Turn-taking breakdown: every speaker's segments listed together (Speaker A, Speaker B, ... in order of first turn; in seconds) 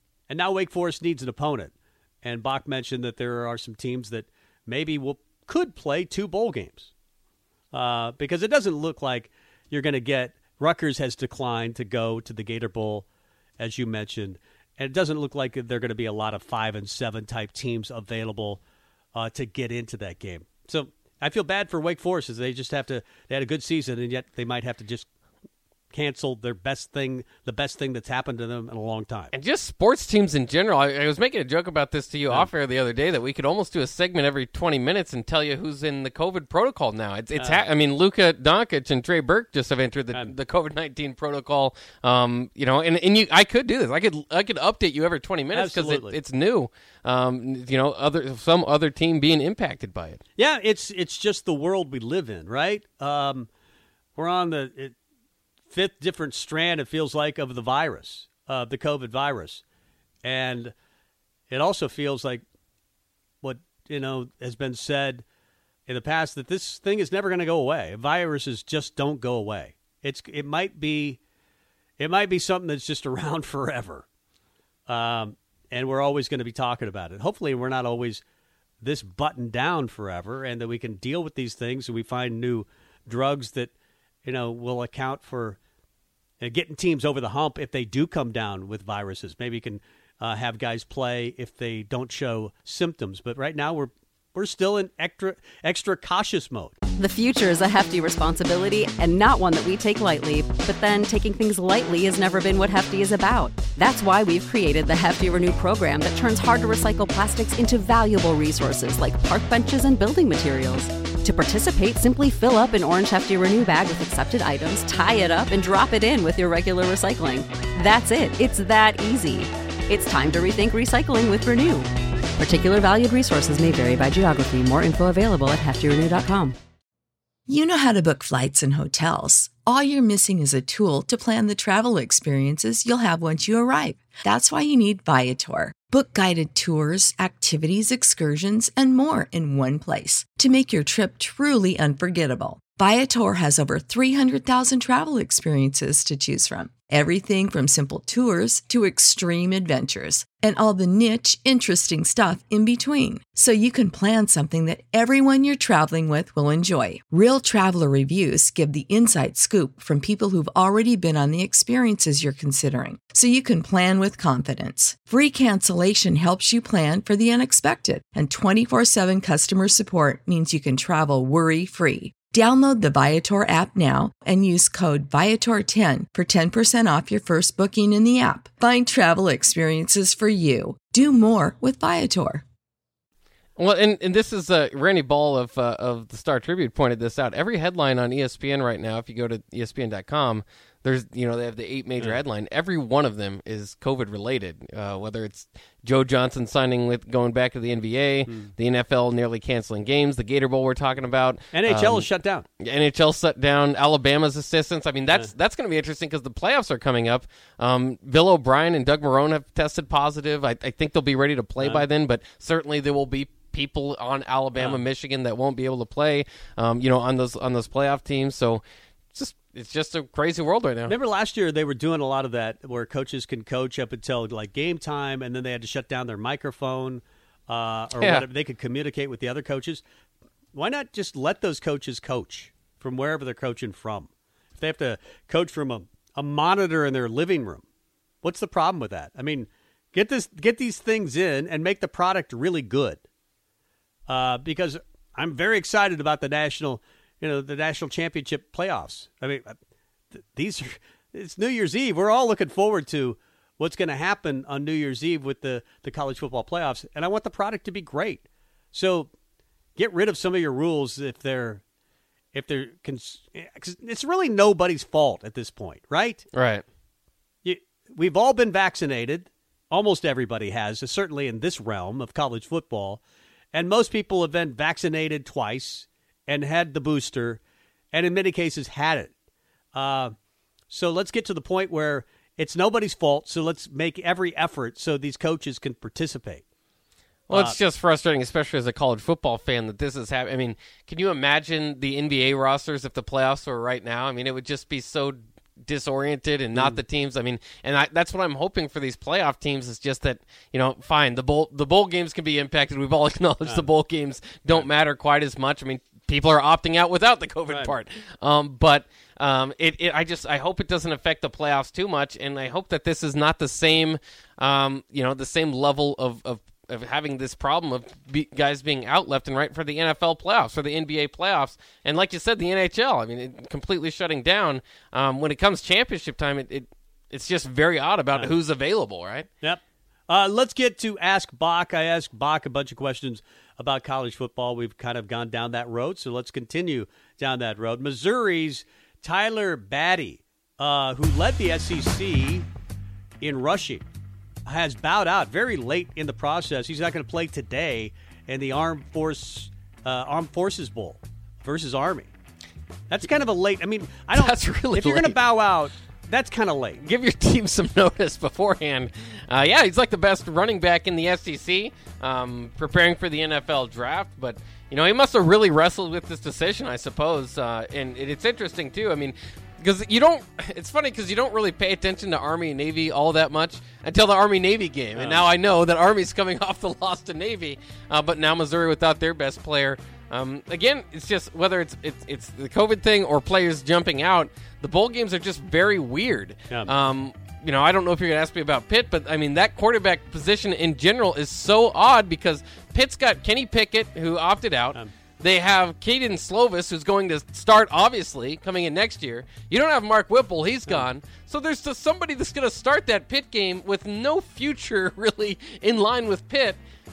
Speaker A: 0.3-6.9, 7.7-13.1, 13.6-18.6, 19.1-25.1, 25.9-29.3, 37.4-37.6, 45.5-46.2, 50.4-53.5, 54.2-55.0, 55.7-59.6, 60.2-60.7, 61.5-62.4, 63.4-65.2, 65.9-71.2, 72.0-74.1, 74.9-78.2, 78.8-83.7, 84.2-85.6, 86.4-96.8, 201.5-202.5, 211.6-211.9, 220.9-229.8, 230.5-237.7, 238.2-243.0, 244.1-249.6, 250.1-259.1, 259.8-261.6, 262.3-266.2, 267.4-273.0, 273.5-277.4, 277.9-279.1, 279.7-280.1, 280.7-286.4, 287.3-287.6, 307.5-307.7, 329.4-342.5, 343.2-343.9, 344.5-352.1, 352.9-356.8, 375.0-375.3
Speaker B: 29.3-50.2, 183.6-202.1, 202.6-218.6, 219.1-220.9, 228.0-228.2, 266.3-266.6, 287.3-329.3, 354.1-355.2, 356.8-406.6
Speaker C: 97.0-126.6
Speaker D: 127.5-182.4